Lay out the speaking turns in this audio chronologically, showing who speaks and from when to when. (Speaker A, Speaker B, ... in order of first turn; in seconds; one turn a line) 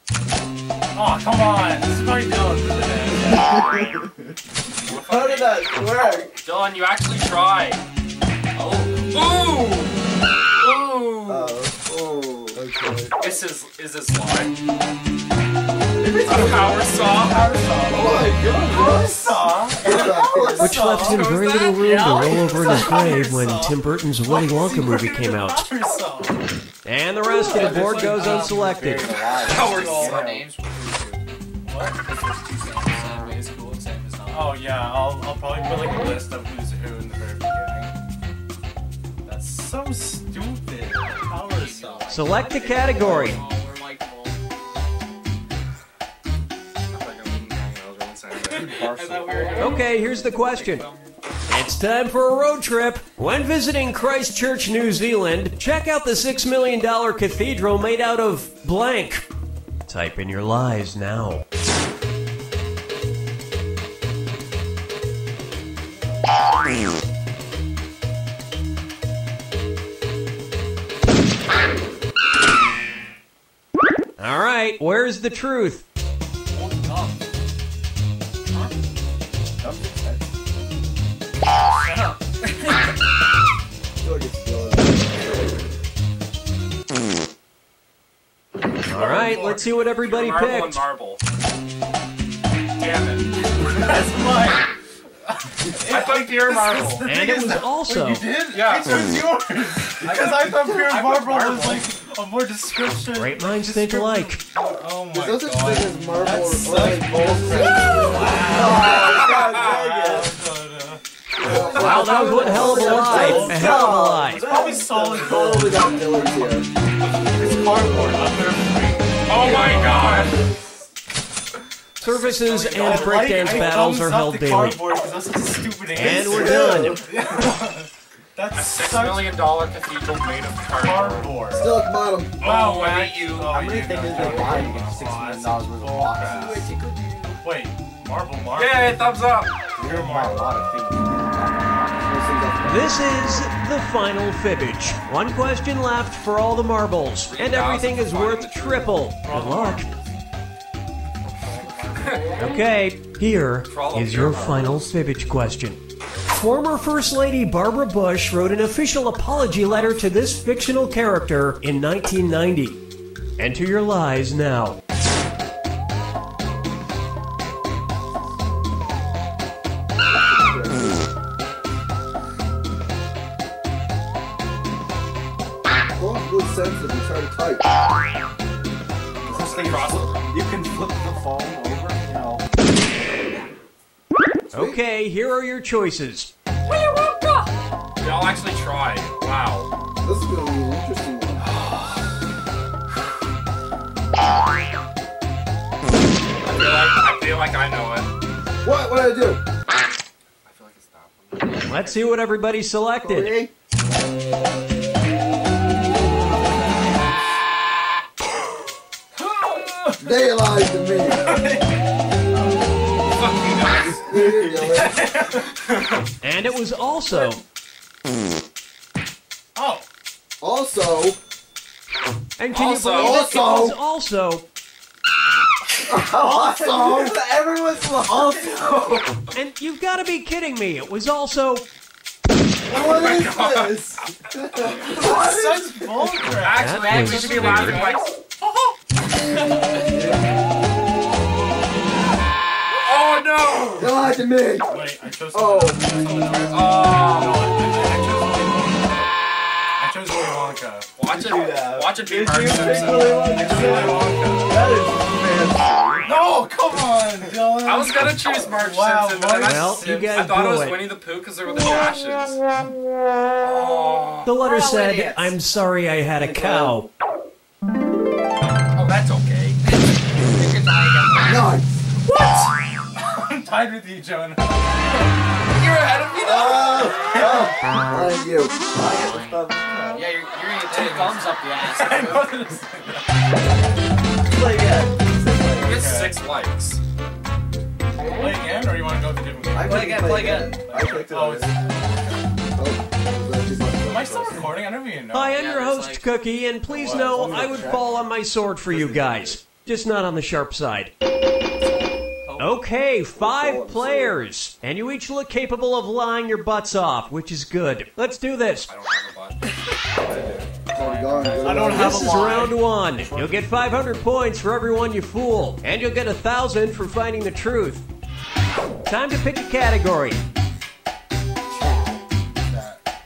Speaker A: 0.9-4.0
Speaker B: 3.2-6.4
Speaker C: 4.8-5.7
Speaker C: 6.4-7.8
Speaker C: 8.6-10.0
Speaker C: 10.6-11.6
Speaker B: 11.3-11.8
Speaker D: 11.8-12.6
Speaker B: 12.6-13.2
Speaker C: 13.2-14.6
Speaker B: 16.0-16.9
Speaker C: 16.3-17.4
Speaker A: 16.3-21.3
Speaker D: 17.9-20.8
Speaker B: 18.8-19.1
Speaker B: 19.8-20.7
Speaker E: 20.6-25.7
Speaker C: 21.0-22.1
Speaker F: 21.8-23.1
Speaker A: 22.1-26.5
Speaker E: 26.9-29.1
Speaker A: 27.5-30.2
Speaker F: 27.5-31.2
Speaker B: 29.1-30.4
Speaker C: 29.4-30.4
Speaker A: 31.6-32.0
Speaker F: 31.8-34.7
Speaker A: 34.3-37.9
Speaker A: 39.2-42.3
Speaker F: 41.4-44.4
Speaker E: 42.1-43.4
Speaker C: 46.9-48.9
Speaker B: 48.5-49.6
Speaker F: 48.6-51.4
Speaker E: 49.6-50.9
Speaker E: 51.5-59.2
Speaker E: 59.9-61.5
Speaker E: 74.2-75.8
Speaker F: 76.5-77.2
Speaker F: 78.5-78.7
Speaker B: 79.6-80.2
Speaker D: 79.7-80.2
Speaker F: 81.7-82.9
Speaker D: 84.0-85.7
Speaker A: 88.9-89.7
Speaker E: 88.9-90.9
Speaker C: 89.3-91.2
Speaker C: 92.8-93.3
Speaker A: 93.7-94.7
Speaker A: 95.3-116.3
Speaker C: 95.9-97.1
Speaker E: 97.0-98.3
Speaker C: 98.5-99.0
Speaker F: 100.0-101.9
Speaker E: 103.1-104.4
Speaker D: 105.1-109.2
Speaker B: 107.4-110.4
Speaker C: 109.0-109.8
Speaker D: 111.4-114.3
Speaker B: 111.4-115.8
Speaker C: 111.7-112.2
Speaker E: 111.8-114.4
Speaker D: 115.0-116.7
Speaker D: 117.3-118.4
Speaker A: 117.3-120.5
Speaker C: 119.3-120.3
Speaker B: 119.4-120.9
Speaker C: 122.0-123.7
Speaker E: 122.0-124.9
Speaker A: 122.8-129.6
Speaker E: 125.9-127.0
Speaker B: 126.1-127.1
Speaker D: 126.3-126.8
Speaker C: 128.5-131.3
Speaker A: 130.7-131.8
Speaker D: 131.5-132.4
Speaker C: 132.4-133.6
Speaker A: 132.4-136.7
Speaker B: 133.4-136.6
Speaker F: 136.2-137.4
Speaker A: 137.4-139.1
Speaker C: 138.5-139.6
Speaker A: 139.8-140.6
Speaker B: 139.8-142.2
Speaker D: 142.1-143.2
Speaker E: 142.7-149.9
Speaker C: 147.2-149.1
Speaker A: 149.2-150.2
Speaker F: 151.2-152.2
Speaker C: 152.0-152.2
Speaker E: 152.4-162.8
Speaker C: 153.7-154.7
Speaker A: 154.2-154.7
Speaker A: 159.7-160.2
Speaker E: 163.4-164.8
Speaker D: 170.0-171.0
Speaker D: 175.9-177.7
Speaker C: 179.2-180.3
Speaker B: 179.2-182.4
Speaker D: 184.5-184.8
Speaker E: 184.5-186.3
Speaker F: 186.6-187.6
Speaker C: 188.0-189.7
Speaker D: 190.0-191.5
Speaker C: 191.4-192.1
Speaker C: 196.4-198.1
Speaker D: 198.6-199.4
Speaker C: 200.4-201.8
Speaker F: 201.4-202.3
Speaker E: 201.7-203.4
Speaker D: 203.0-203.5
Speaker F: 205.9-207.2
Speaker F: 209.4-209.8
Speaker D: 210.0-211.3
Speaker A: 211.2-211.7
Speaker D: 212.3-212.7
Speaker C: 213.1-214.1
Speaker D: 213.9-215.1
Speaker A: 214.5-215.9
Speaker E: 216.2-217.4
Speaker A: 219.6-219.8
Speaker D: 220.4-221.2
Speaker E: 222.4-224.5
Speaker C: 222.5-223.2
Speaker D: 222.9-223.8
Speaker D: 225.9-227.2
Speaker B: 225.9-229.2
Speaker E: 229.3-231.7
Speaker B: 232.7-235.6
Speaker C: 232.7-234.1
Speaker D: 234.6-235.8
Speaker A: 235.0-238.7
Speaker C: 236.2-238.2
Speaker E: 236.5-237.8
Speaker F: 236.8-238.1
Speaker F: 239.2-239.9
Speaker D: 239.9-240.2
Speaker C: 242.8-243.9
Speaker D: 243.8-246.1
Speaker A: 244.6-249.1
Speaker F: 246.1-246.5
Speaker C: 246.3-247.5
Speaker A: 249.8-250.9
Speaker C: 251.0-253.3
Speaker B: 251.0-256.3
Speaker A: 252.5-254.7
Speaker A: 256.0-260.2
Speaker C: 257.6-262.4
Speaker E: 259.4-260.9
Speaker C: 263.4-264.4
Speaker E: 264.2-266.9
Speaker F: 264.4-265.4
Speaker D: 266.2-266.8
Speaker C: 268.7-269.6
Speaker F: 269.6-271.5
Speaker D: 271.2-271.9
Speaker C: 272.1-272.4
Speaker A: 273.0-274.8
Speaker F: 275.6-277.0
Speaker B: 276.2-277.5
Speaker D: 276.4-278.6
Speaker B: 278.7-280.1
Speaker F: 279.9-282.5
Speaker C: 280.7-281.4
Speaker A: 281.6-283.2
Speaker B: 284.3-286.0
Speaker C: 285.6-286.8
Speaker A: 285.6-286.2
Speaker A: 288.1-291.8
Speaker B: 289.5-291.6
Speaker F: 289.6-290.7
Speaker D: 292.6-294.6
Speaker A: 293.8-295.4
Speaker E: 295.1-300.9
Speaker F: 295.3-296.1
Speaker A: 296.7-297.8
Speaker B: 296.9-298.1
Speaker D: 297.3-297.6
Speaker B: 298.7-299.4
Speaker F: 301.6-302.6
Speaker E: 302.4-308.7
Speaker D: 303.2-304.2
Speaker C: 308.7-309.5
Speaker B: 310.0-310.5
Speaker F: 310.7-312.5
Speaker D: 310.7-312.1
Speaker A: 311.4-313.6
Speaker E: 311.7-317.8
Speaker E: 318.9-320.2
Speaker D: 321.5-322.0
Speaker A: 322.4-322.8